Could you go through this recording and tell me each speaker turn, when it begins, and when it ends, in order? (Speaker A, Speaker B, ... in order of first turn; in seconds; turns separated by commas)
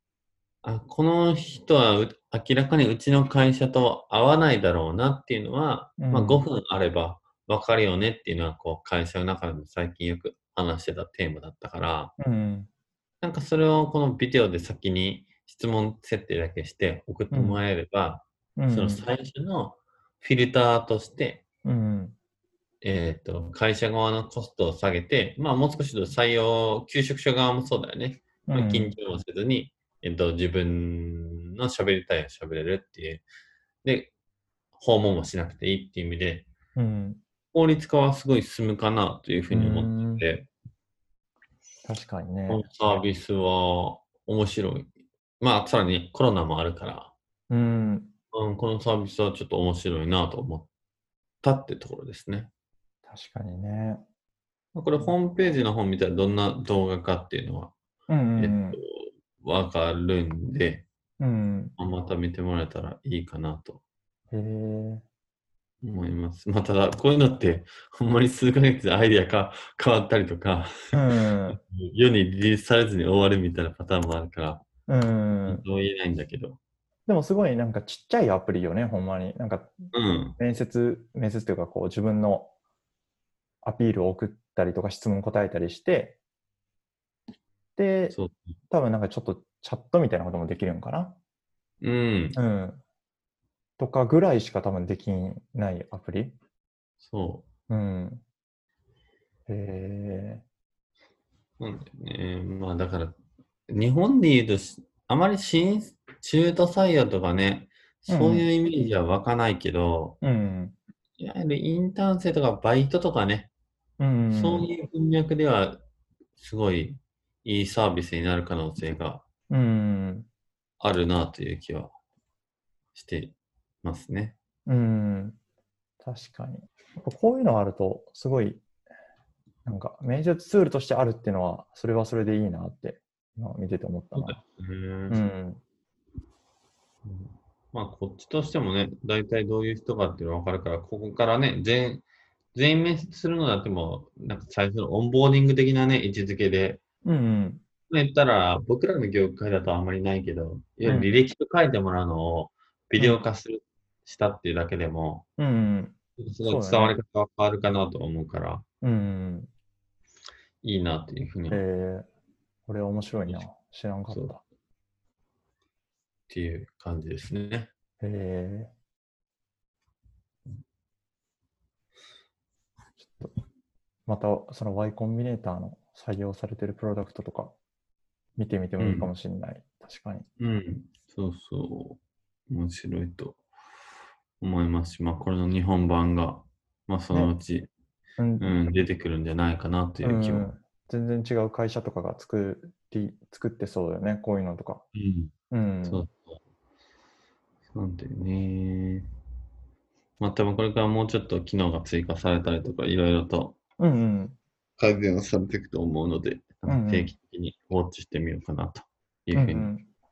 Speaker A: 0.6-12.1, Speaker B: 6.0-6.5, Speaker B: 12.2-12.7, Speaker A: 13.2-21.4, Speaker B: 17.3-17.6, Speaker B: 18.6-19.1, Speaker B: 21.6-22.1, Speaker A: 22.8-33.2, Speaker B: 28.5-28.9, Speaker A: 33.8-34.1, Speaker A: 34.8-36.5, Speaker B: 36.8-37.2, Speaker A: 37.5-40.5, Speaker B: 39.5-40.2, Speaker B: 41.8-43.0, Speaker A: 42.5-47.1, Speaker B: 47.5-48.1, Speaker A: 48.3-50.7, Speaker A: 51.4-52.5, Speaker B: 53.0-54.0, Speaker A: 54.7-57.7, Speaker B: 58.1-58.8, Speaker A: 58.4-60.9, Speaker B: 61.2-61.8, Speaker A: 61.8-63.8, Speaker B: 64.3-65.0, Speaker A: 65.8-74.6, Speaker B: 70.9-71.6, Speaker B: 74.9-75.6, Speaker A: 75.5-76.6, Speaker B: 77.1-82.5, Speaker A: 79.9-80.4, Speaker B: 83.6-86.2, Speaker B: 87.8-88.2, Speaker A: 88.1-88.6, Speaker B: 88.7-91.2, Speaker A: 91.8-92.4, Speaker B: 92.3-92.8, Speaker B: 93.8-96.3, Speaker A: 97.0-97.5, Speaker B: 97.7-98.2, Speaker B: 99.5-100.4, Speaker A: 101.6-103.2, Speaker A: 103.7-110.2, Speaker B: 108.1-108.5, Speaker B: 110.2-110.8, Speaker A: 111.2-113.5, Speaker B: 114.0-114.7, Speaker A: 114.3-115.8, Speaker A: 116.3-119.2, Speaker B: 119.5-120.3, Speaker A: 120.8-121.9, Speaker A: 122.9-124.3, Speaker B: 124.7-125.4, Speaker B: 126.0-128.6, Speaker B: 129.6-134.4, Speaker A: 134.1-135.2, Speaker B: 135.1-135.6, Speaker A: 137.0-146.8, Speaker B: 147.0-147.6, Speaker A: 147.9-155.2, Speaker B: 150.8-151.1, Speaker B: 155.4-157.0, Speaker A: 156.2-158.6, Speaker B: 158.8-159.5, Speaker A: 160.6-161.6, Speaker B: 161.5-162.1, Speaker B: 162.7-164.4, Speaker A: 166.3-167.7, Speaker B: 168.0-168.7, Speaker B: 173.0-173.3, Speaker B: 174.1-177.6, Speaker B: 178.4-180.3, Speaker A: 178.8-179.1, Speaker A: 180.4-183.4, Speaker A: 184.4-187.7, Speaker B: 188.2-188.6, Speaker A: 188.4-190.5, Speaker B: 190.0-194.8, Speaker A: 194.9-195.3, Speaker B: 195.5-196.0, Speaker A: 195.8-196.4, Speaker A: 197.7-199.1, Speaker A: 200.2-203.6, Speaker B: 203.8-204.4, Speaker A: 204.8-209.7, Speaker B: 206.7-207.1, Speaker B: 209.3-209.9